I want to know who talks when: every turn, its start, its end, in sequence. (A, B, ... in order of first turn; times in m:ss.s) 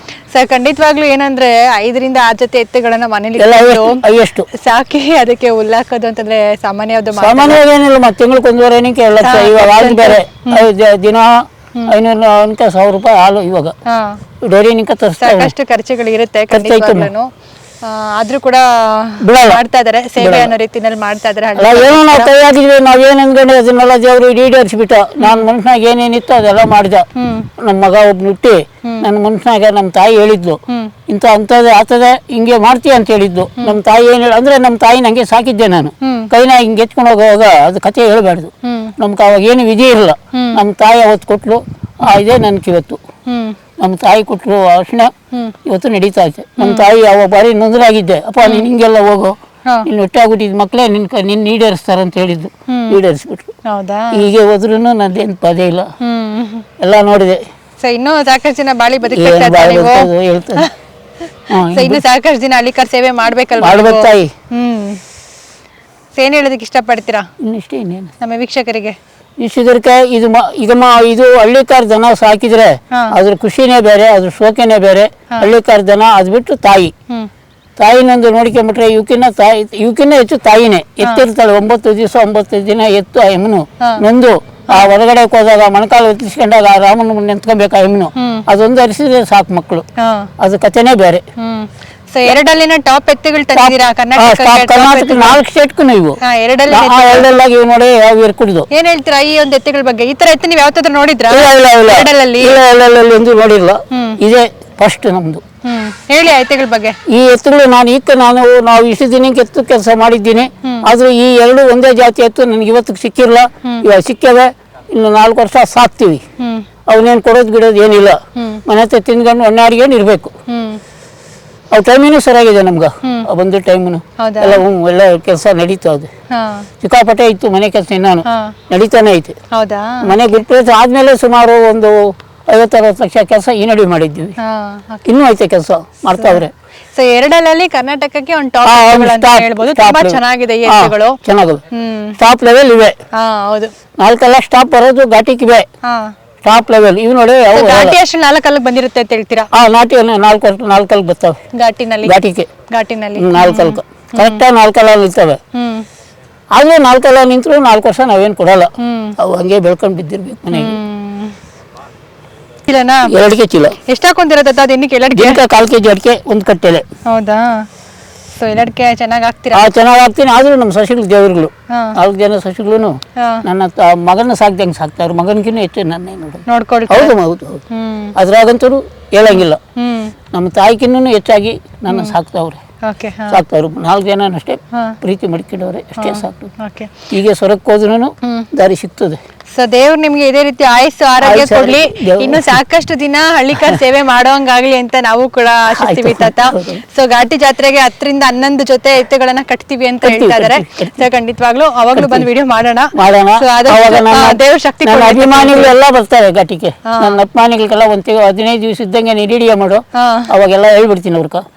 0:00.3-0:07.6 A
0:03.4-0:04.5 B
0:07.2-0:13.7 B
0:09.2-0:10.7 A
0:13.9-0:14.2 A
0:14.4-0:15.5 B
0:15.2-0:17.3 A
0:16.5-0:17.1 B
0:17.8-0:22.3 A
0:19.2-0:19.6 B
0:20.2-0:20.5 B
0:21.6-0:27.1 B
0:25.2-0:25.4 A
0:27.2-0:27.5 A
0:27.6-0:43.0 B
0:30.7-0:30.9 A
0:36.0-0:36.3 A
0:38.6-0:38.9 A
0:40.3-0:40.6 A
0:43.3-0:43.6 A
0:43.8-0:45.1 B
0:45.6-0:53.5 B
0:46.6-0:46.9 A
0:48.4-0:48.7 A
0:52.7-0:53.0 A
0:53.6-0:54.3 A
0:54.1-0:55.9 B
0:56.0-0:56.7 A
0:56.8-0:57.4 B
0:57.8-1:00.7 A
0:59.1-1:00.7 B
1:01.5-1:05.0 A
1:01.5-1:02.0 B
1:03.6-1:04.3 B
1:06.2-1:07.3 A
1:07.4-1:08.1 B
1:08.2-1:09.0 A
1:09.4-1:16.9 B
1:17.8-1:29.8 B
1:21.0-1:21.3 A
1:28.2-1:28.4 A
1:30.0-1:30.3 A
1:30.4-1:31.2 B
1:31.4-1:35.4 A
1:33.6-1:38.7 B
1:36.2-1:37.3 A
1:38.7-1:42.6 A
1:41.3-1:45.4 B
1:43.9-1:44.2 A
1:45.6-1:47.0 A
1:47.1-1:56.2 B
1:50.6-1:50.9 A
1:56.4-1:56.7 A
1:56.9-2:00.3 B
1:58.4-1:58.6 A
2:00.5-2:00.8 A
2:01.7-2:06.1 B
2:04.2-2:04.6 A
2:06.3-2:06.7 A
2:06.8-2:09.4 B
2:08.3-2:08.6 A
2:09.5-2:10.2 A
2:10.0-2:14.4 B
2:14.4-2:15.0 A
2:15.0-2:16.5 B
2:17.0-2:21.2 A
2:18.6-2:21.6 B
2:21.7-2:22.2 A
2:22.2-2:23.0 B
2:23.1-2:23.7 A
2:24.0-2:25.7 B
2:25.8-2:26.1 A
2:26.4-2:28.0 B
2:27.5-2:29.5 A
2:29.5-2:31.4 B
2:31.5-2:32.2 A
2:32.0-2:32.5 B
2:32.7-2:34.4 A
2:33.2-2:35.4 B
2:35.5-2:35.9 A
2:36.5-2:40.8 B
2:38.8-2:39.2 A
2:40.5-2:41.4 A
2:42.7-2:43.2 A
2:43.1-2:43.8 B
2:43.9-2:45.4 A
2:45.1-2:46.8 B
2:47.1-2:47.7 A
2:48.4-2:49.7 A
2:49.5-2:57.6 B
2:51.7-2:52.0 A
2:53.2-2:53.4 A
2:56.5-2:57.1 A
2:57.7-2:58.1 A
2:58.2-2:59.6 B
2:59.3-3:00.1 A
3:00.3-3:02.6 B
3:01.9-3:02.2 A
3:02.8-3:03.4 A
3:03.3-3:06.5 B
3:04.7-3:05.0 A
3:06.0-3:07.0 A
3:07.1-3:09.2 B
3:08.2-3:08.5 A
3:09.5-3:25.7 A
3:11.2-3:12.6 B
3:15.7-3:16.8 B
3:20.0-3:21.0 B
3:21.9-3:22.3 B
3:22.9-3:31.4 B
3:26.9-3:27.2 A
3:30.0-3:30.3 A